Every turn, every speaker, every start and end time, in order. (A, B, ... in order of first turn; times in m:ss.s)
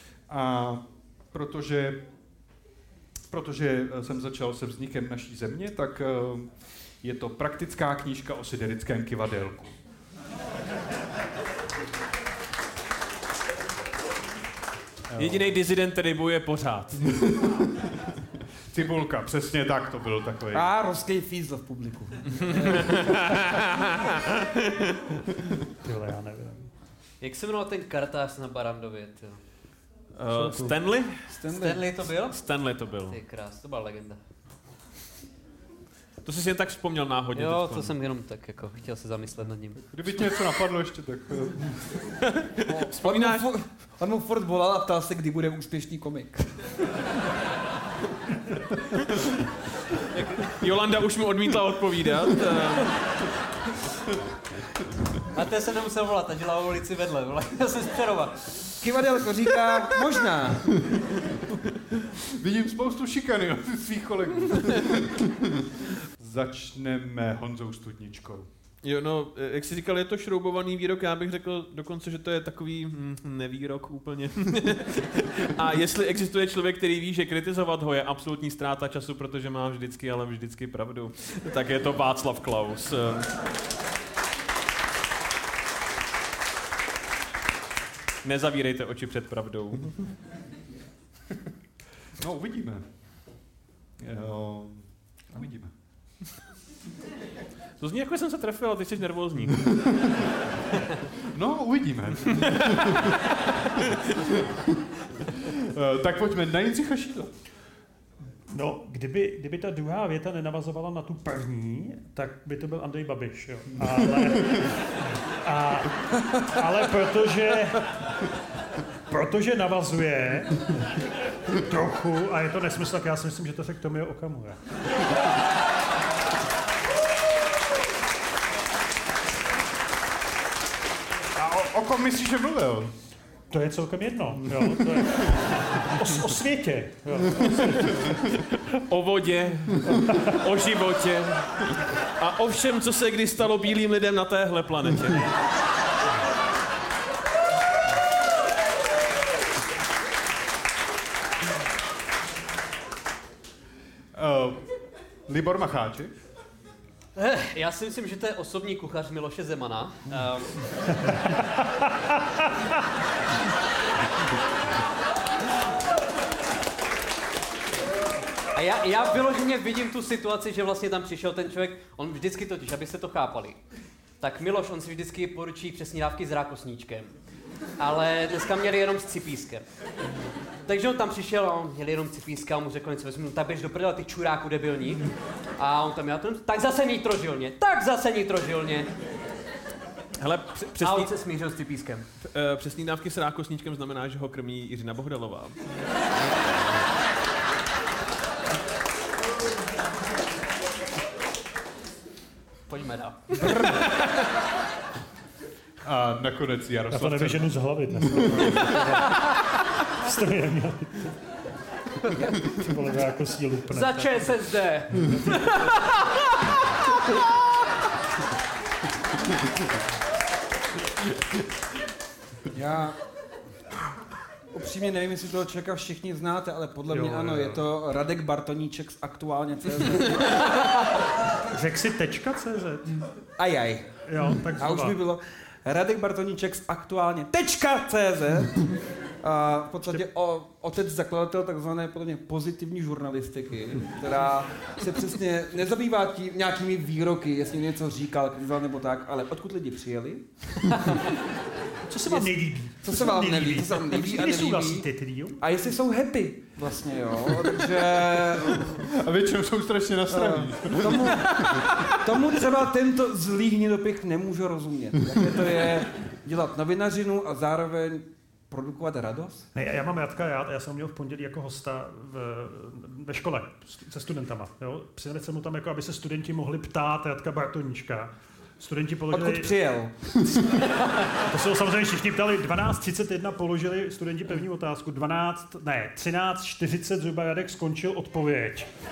0:00.3-0:02.0 A
0:03.3-0:06.5 A
0:07.0-0:09.7 A
0:15.1-0:15.6 A
0:15.2-0:17.0 B
0:17.1-0:17.9 A
0:18.7-0:20.7 A
0:20.5-0:23.0 C
0:22.5-0:24.2 B
0:25.8-0:26.7 D
0:27.2-0:29.4 E
0:30.2-0:31.1 B
0:30.3-0:30.8 D
0:31.3-0:31.8 C
0:31.5-0:32.4 E
0:32.2-0:33.2 B
0:33.0-0:34.2 E
0:36.2-0:37.9 B
0:37.3-0:39.9 E
0:39.9-0:41.8 A
0:42.4-0:43.5 B
0:42.6-0:46.5 C
0:50.2-0:50.4 E
0:50.6-0:52.9 B
0:55.3-0:58.5 E
0:58.8-1:00.6 C
1:00.7-1:01.0 A
1:02.4-1:05.6 A
1:06.2-1:08.5 A
1:08.8-1:23.3 B
1:28.2-1:30.0 B
1:32.2-1:32.8 A
1:34.0-1:35.7 A
1:37.8-1:39.7 B
1:39.8-1:40.2 A
1:41.3-1:43.2 A
1:42.5-1:43.1 B
1:43.8-1:44.0 B
1:45.4-1:47.3 A
1:48.5-1:54.8 D
1:55.4-1:57.9 D
1:59.1-2:00.8 D
2:01.5-2:04.6 D
2:11.4-2:12.9 A
2:13.5-2:18.2 D
2:18.5-2:25.3 B
2:19.9-2:20.2 D
2:34.2-2:34.6 A
2:35.3-2:36.1 A
2:37.2-2:40.6 E
2:48.5-2:53.6 E
2:54.2-2:57.1 E
2:57.8-2:59.6 E
3:00.7-3:05.1 E
3:05.6-3:08.9 E
3:10.2-3:11.1 B
3:10.8-3:12.0 E
3:12.3-3:15.6 B
3:22.7-3:23.2 E
3:23.4-3:23.9 C
3:25.8-3:28.9 A
3:26.9-3:29.3 D
3:30.0-3:31.1 D
3:32.2-3:32.5 C
3:32.4-3:34.5 D
3:33.7-3:35.7 E
3:42.5-3:43.0 C
3:44.5-3:50.5 C
3:46.9-3:47.7 D
3:51.5-3:53.0 D
3:53.4-4:10.2 C
3:54.0-3:55.0 D
4:11.9-4:15.4 D
4:12.1-4:18.8 C
4:18.6-4:21.8 A
4:20.1-4:21.4 C
4:22.0-4:29.5 C
4:29.5-4:39.6 D
4:39.1-4:40.5 C
4:41.3-4:48.7 D